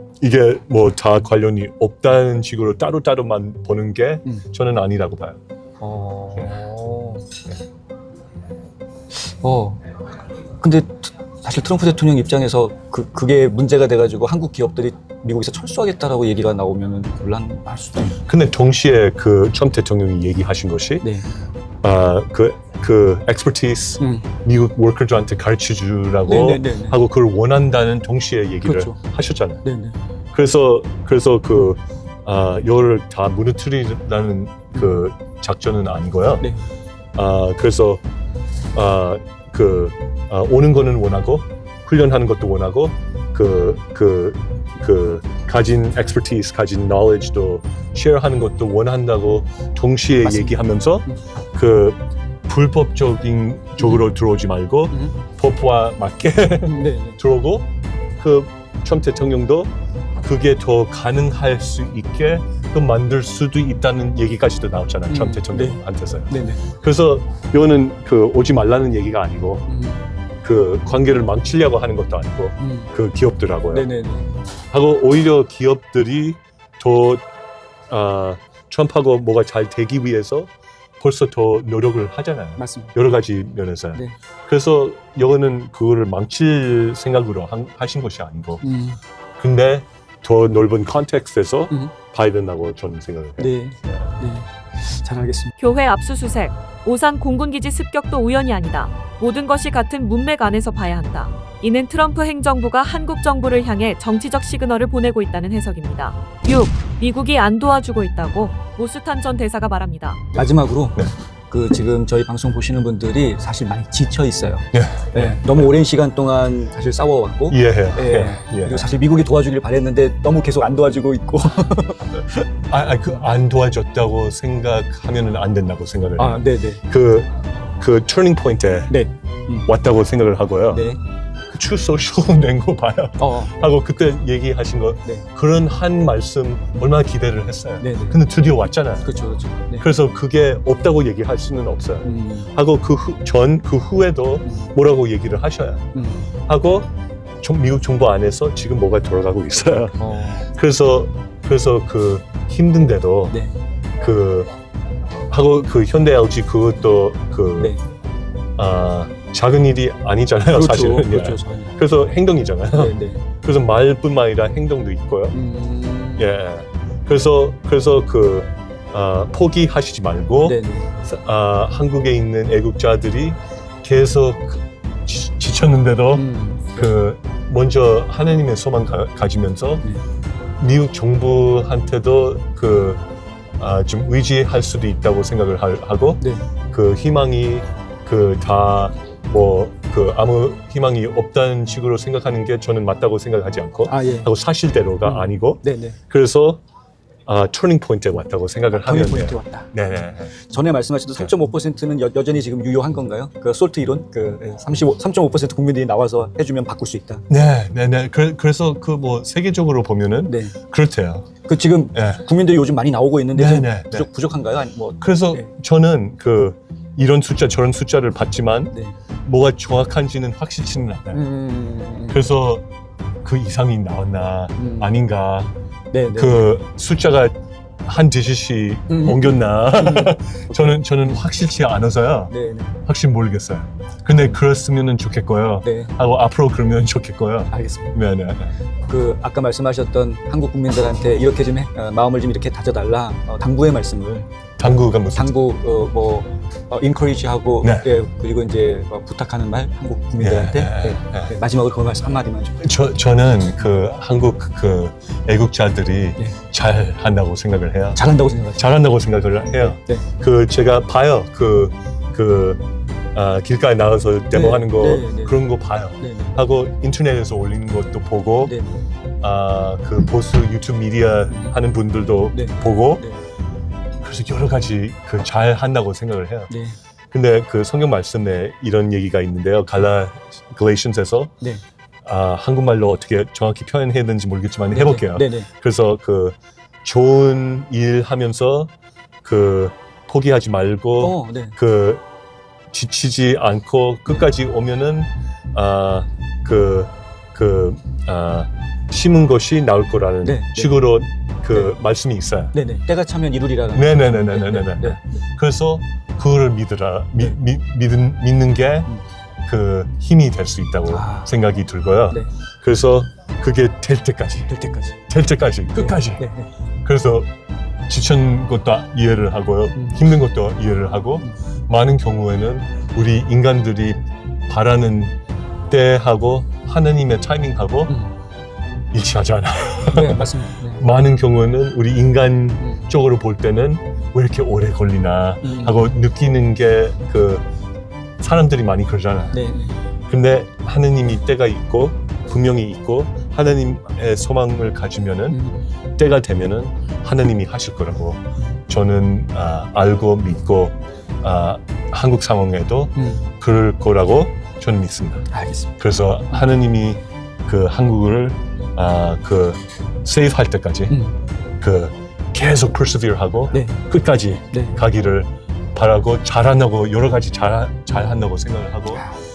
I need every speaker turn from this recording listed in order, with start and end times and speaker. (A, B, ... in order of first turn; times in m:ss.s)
0:00.2-0:05.4 A
0:05.8-0:07.3 B
0:09.1-0:09.8 B
0:10.6-0:18.2 B
0:18.2-0:21.1 A
0:21.0-0:21.3 B
0:21.8-0:29.6 A
0:24.0-0:24.2 B
0:26.2-0:27.0 B
0:28.6-0:29.0 B
0:29.6-0:30.0 B
0:30.3-0:36.5 A
0:37.1-0:38.0 A
0:38.7-0:57.7 A
0:50.2-0:50.6 B
0:53.8-0:54.0 B
0:56.6-0:57.2 B
0:58.2-0:59.7 A
1:00.2-1:09.6 A
1:05.1-1:06.6 B
1:09.7-1:10.0 B
1:10.4-1:13.9 A
1:12.6-1:12.9 B
1:13.7-1:14.3 B
1:14.7-1:17.2 A
1:17.9-1:28.6 A
1:22.6-1:22.9 B
1:28.6-1:29.0 B
1:29.4-1:34.0 A
1:33.4-1:35.5 B
1:35.6-1:50.4 C
1:50.4-2:02.2 B
1:54.7-1:55.6 A
1:57.5-1:58.9 A
2:02.2-2:09.0 A
2:06.2-2:06.8 B
2:08.9-2:09.7 B
2:09.6-2:10.9 A
2:10.7-2:11.0 B
2:11.5-2:19.1 A
2:13.2-2:13.6 B
2:17.8-2:18.2 B
2:19.0-2:19.9 B
2:19.8-2:26.9 A
2:22.0-2:22.5 B
2:25.9-2:26.3 B
2:27.4-2:33.4 A
2:30.0-2:30.5 B
2:34.0-2:34.5 A
2:35.3-2:37.8 A
2:38.6-2:45.4 A
2:40.5-2:41.8 B
2:42.7-2:43.2 B
2:45.3-2:46.3 B
2:46.2-2:59.8 A
2:50.4-2:50.9 B
2:56.1-2:56.9 B
3:00.6-3:03.0 A
3:03.6-3:16.6 A
3:13.9-3:14.3 B
3:15.0-3:16.0 B
3:17.3-3:20.3 A
3:18.7-3:19.7 B
3:20.4-3:27.2 B
3:27.3-3:31.3 A
3:30.3-3:30.6 B
3:31.4-3:35.5 B
3:31.9-3:32.3 A
3:33.3-3:34.1 A
3:35.0-3:41.2 A
3:41.1-3:42.2 B
3:42.1-3:42.6 A
3:43.2-3:45.5 A
3:44.6-3:44.9 B
3:45.9-3:46.5 B
3:46.1-3:52.3 A
3:48.9-3:51.2 B
3:52.3-3:52.8 B
3:52.8-3:58.6 A
3:55.6-3:55.9 B
3:57.5-3:57.9 B
3:58.9-4:12.7 B
4:04.6-4:05.4 A
4:07.6-4:07.9 A
4:10.2-4:11.3 A
4:12.6-4:22.6 A
4:17.9-4:18.7 B
4:19.5-4:20.1 B
4:23.1-4:28.5 A
4:24.3-4:25.5 B
4:26.0-4:26.4 B
4:28.4-4:28.8 B
4:29.2-4:33.0 A
4:31.3-4:31.6 B
4:32.3-4:33.2 B
4:34.0-4:36.5 A
4:36.5-4:36.8 B
4:37.1-4:41.3 A
4:42.0-4:48.7 A
4:44.7-4:45.5 B
4:49.2-4:52.0 A
4:51.0-4:51.6 B
4:52.7-5:02.6 A
5:00.2-5:00.8 B
5:01.5-5:01.8 B
5:02.5-5:05.0 B
5:03.7-5:08.9 A
5:09.4-5:14.5 A
5:10.9-5:11.3 B
5:14.5-5:15.0 B
5:15.1-5:16.3 A
5:15.7-5:16.5 B
5:16.8-5:17.3 A
5:17.9-5:25.1 A
5:19.7-5:20.0 B
5:25.7-5:28.0 A
5:28.9-5:37.4 A
5:29.9-5:30.8 B
5:35.4-5:35.8 B
5:38.2-5:39.4 A
5:39.3-5:39.7 B
5:40.1-5:45.4 A
5:45.3-5:45.6 B
5:46.0-5:55.3 A
5:53.0-5:53.2 B
5:55.3-5:55.7 B
5:55.8-6:01.0 A
6:00.9-6:01.2 B
6:01.6-6:09.0 A
6:03.5-6:03.8 B
6:04.5-6:04.8 B
6:07.9-6:08.2 B